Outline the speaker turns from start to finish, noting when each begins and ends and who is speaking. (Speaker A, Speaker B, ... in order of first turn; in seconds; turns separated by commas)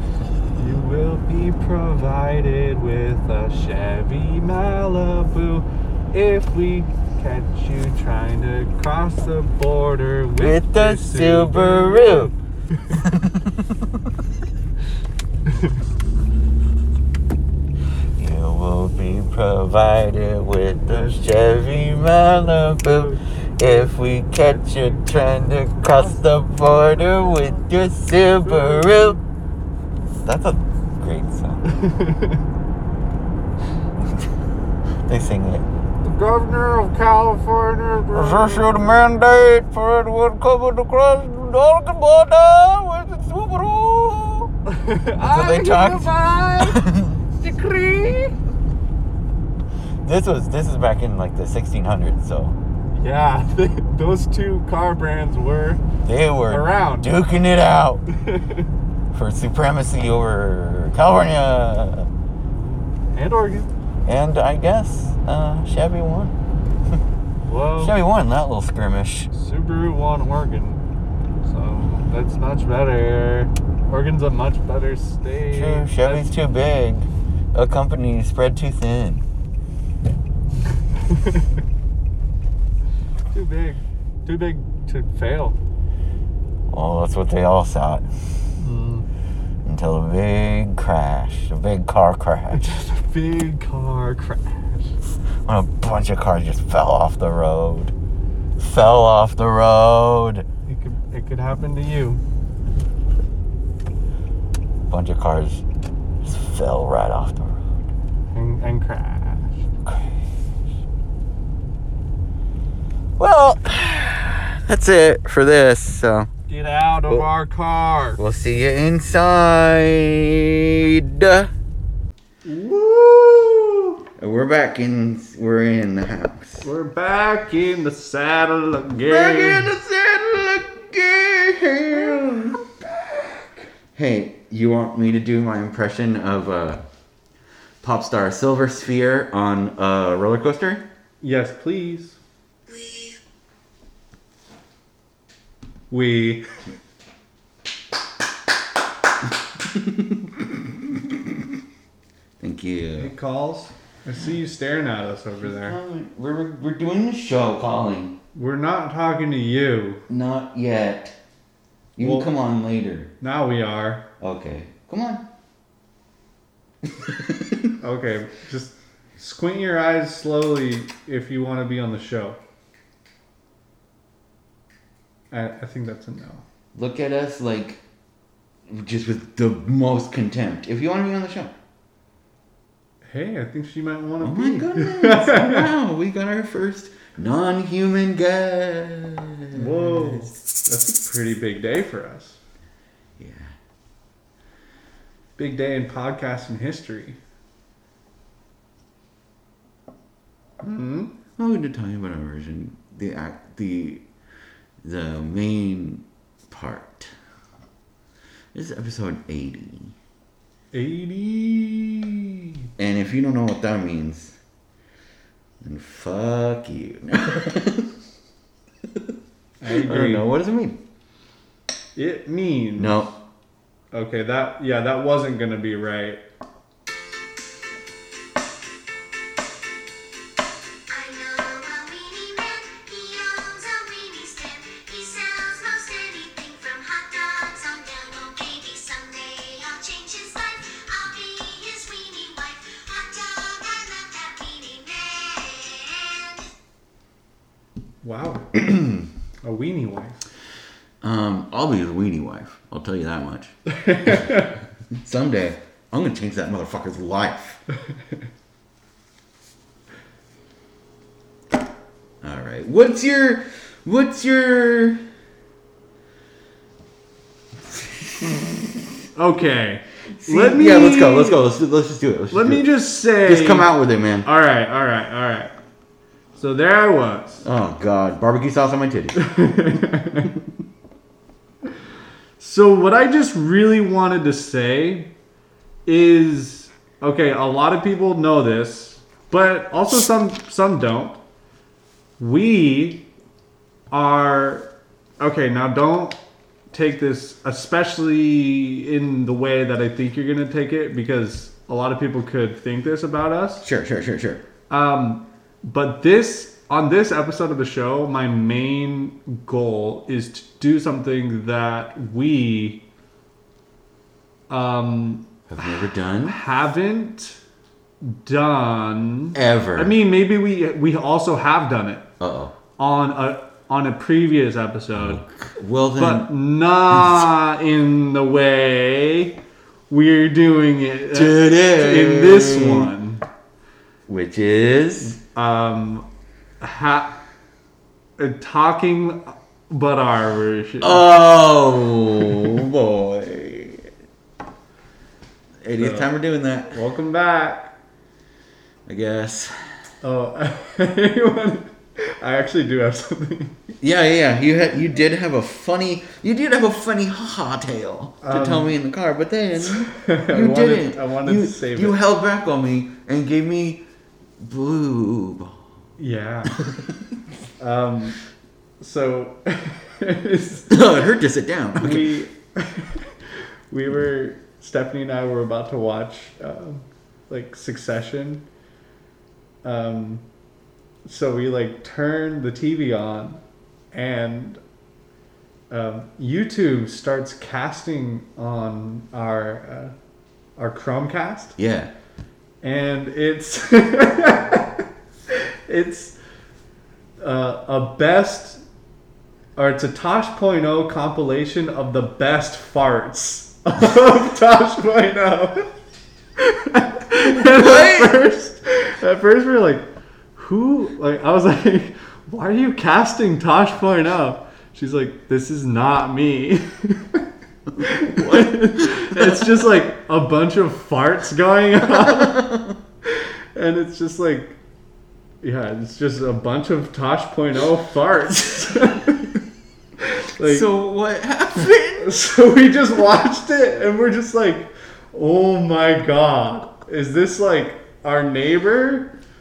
Speaker A: 0.6-12.9, Speaker B: 10.4-12.3, Speaker B: 12.9-13.6, Speaker A: 15.4-15.8, Speaker B: 18.2-29.2, Speaker A: 20.9-21.3, Speaker A: 22.9-27.6, Speaker A: 28.4-29.2, Speaker B: 30.2-31.8, Speaker A: 31.7-32.4, Speaker B: 35.0-35.6, Speaker A: 36.0-39.1, Speaker B: 38.1-44.5, Speaker A: 44.6-46.8, Speaker B: 45.2-47.2, Speaker A: 47.4-48.4, Speaker B: 50.0-52.6, Speaker A: 52.9-55.8, Speaker B: 56.0-58.0, Speaker A: 56.5-57.1, Speaker A: 58.1-58.7, Speaker B: 59.1-62.1, Speaker A: 62.5-63.7, Speaker B: 64.1-66.3, Speaker A: 67.4-68.0, Speaker B: 67.8-69.3, Speaker A: 69.3-70.8, Speaker A: 71.4-76.3, Speaker B: 75.5-79.2, Speaker A: 81.1-81.4, Speaker A: 83.3-85.6, Speaker B: 86.7-88.0, Speaker A: 88.6-89.1, Speaker B: 89.6-92.7, Speaker A: 92.5-94.9, Speaker B: 95.4-97.9, Speaker B: 98.6-100.4, Speaker A: 100.7-102.2, Speaker B: 104.9-105.6, Speaker B: 106.2-107.6, Speaker A: 108.3-109.6, Speaker B: 109.8-110.2, Speaker B: 113.2-116.3, Speaker A: 116.5-118.2, Speaker B: 118.2-121.5, Speaker A: 122.4-124.0, Speaker B: 124.2-126.7, Speaker A: 126.6-129.7, Speaker B: 128.9-132.6, Speaker A: 131.9-133.7, Speaker B: 133.9-136.8, Speaker B: 137.8-140.8, Speaker A: 141.2-142.2, Speaker C: 142.7-143.1, Speaker A: 145.9-146.4, Speaker B: 149.7-150.4, Speaker B: 152.4-153.1, Speaker A: 153.0-155.8, Speaker B: 155.4-158.2, Speaker A: 158.3-160.0, Speaker B: 160.1-161.2, Speaker B: 162.0-163.1, Speaker A: 162.0-162.3, Speaker A: 163.2-164.1, Speaker B: 164.2-165.2, Speaker B: 167.0-167.7, Speaker A: 167.8-172.4, Speaker A: 175.3-176.4, Speaker B: 176.8-177.8, Speaker B: 178.7-181.5, Speaker A: 183.0-185.7, Speaker B: 184.2-190.3, Speaker A: 189.5-192.4, Speaker B: 193.2-193.5, Speaker A: 195.4-197.2, Speaker A: 200.6-201.1, Speaker B: 201.4-204.0, Speaker B: 204.8-207.1, Speaker B: 208.5-209.9, Speaker A: 210.7-212.6, Speaker B: 212.8-214.4, Speaker B: 215.6-217.9, Speaker A: 219.6-220.3, Speaker B: 219.7-220.8, Speaker A: 222.0-222.9, Speaker B: 222.8-223.1, Speaker A: 223.9-226.2, Speaker C: 230.9-246.5, Speaker A: 248.0-248.5, Speaker B: 248.5-249.1, Speaker A: 249.4-250.2, Speaker B: 251.0-253.5, Speaker A: 253.7-254.5, Speaker B: 254.1-254.4, Speaker B: 255.0-257.6, Speaker B: 262.2-265.0, Speaker B: 267.7-268.9, Speaker A: 269.1-271.4, Speaker B: 270.2-274.3, Speaker A: 272.3-273.7, Speaker A: 274.2-275.5, Speaker A: 276.4-277.4, Speaker B: 277.4-279.2, Speaker A: 279.1-280.4, Speaker A: 282.4-285.1, Speaker A: 285.9-291.2, Speaker A: 292.2-293.1, Speaker A: 293.9-296.2, Speaker A: 296.7-303.6, Speaker B: 303.6-304.4, Speaker A: 304.7-312.8, Speaker A: 314.5-315.7, Speaker B: 315.5-316.4, Speaker A: 316.2-317.4, Speaker A: 318.0-322.1, Speaker B: 319.4-319.9, Speaker B: 322.2-322.5, Speaker A: 322.8-325.2, Speaker B: 325.0-326.4, Speaker A: 326.0-333.2, Speaker B: 326.9-327.2, Speaker B: 331.1-332.9, Speaker B: 334.1-335.2, Speaker A: 335.1-336.1, Speaker A: 336.6-337.2, Speaker A: 338.2-341.0, Speaker B: 340.8-343.9, Speaker B: 345.6-346.8, Speaker A: 345.8-346.1, Speaker A: 346.7-347.7, Speaker B: 348.9-349.5, Speaker A: 350.0-353.6, Speaker B: 353.8-363.9, Speaker A: 358.2-358.8, Speaker A: 359.6-362.0, Speaker B: 364.4-365.6, Speaker A: 366.0-366.5, Speaker A: 367.6-368.2, Speaker A: 368.8-370.7, Speaker B: 370.7-372.1, Speaker A: 371.8-378.4, Speaker A: 379.6-380.2, Speaker A: 381.0-383.4, Speaker A: 383.9-384.6, Speaker A: 385.7-389.9, Speaker A: 390.6-391.5, Speaker B: 391.6-391.9, Speaker A: 392.6-396.2, Speaker A: 397.2-398.6, Speaker A: 399.6-405.7, Speaker A: 406.4-417.2, Speaker B: 407.4-408.1, Speaker B: 417.8-419.5, Speaker A: 417.8-422.4, Speaker B: 422.0-422.8, Speaker A: 423.0-424.6, Speaker A: 425.4-429.4, Speaker A: 430.0-430.7, Speaker B: 430.4-432.2, Speaker A: 432.0-439.1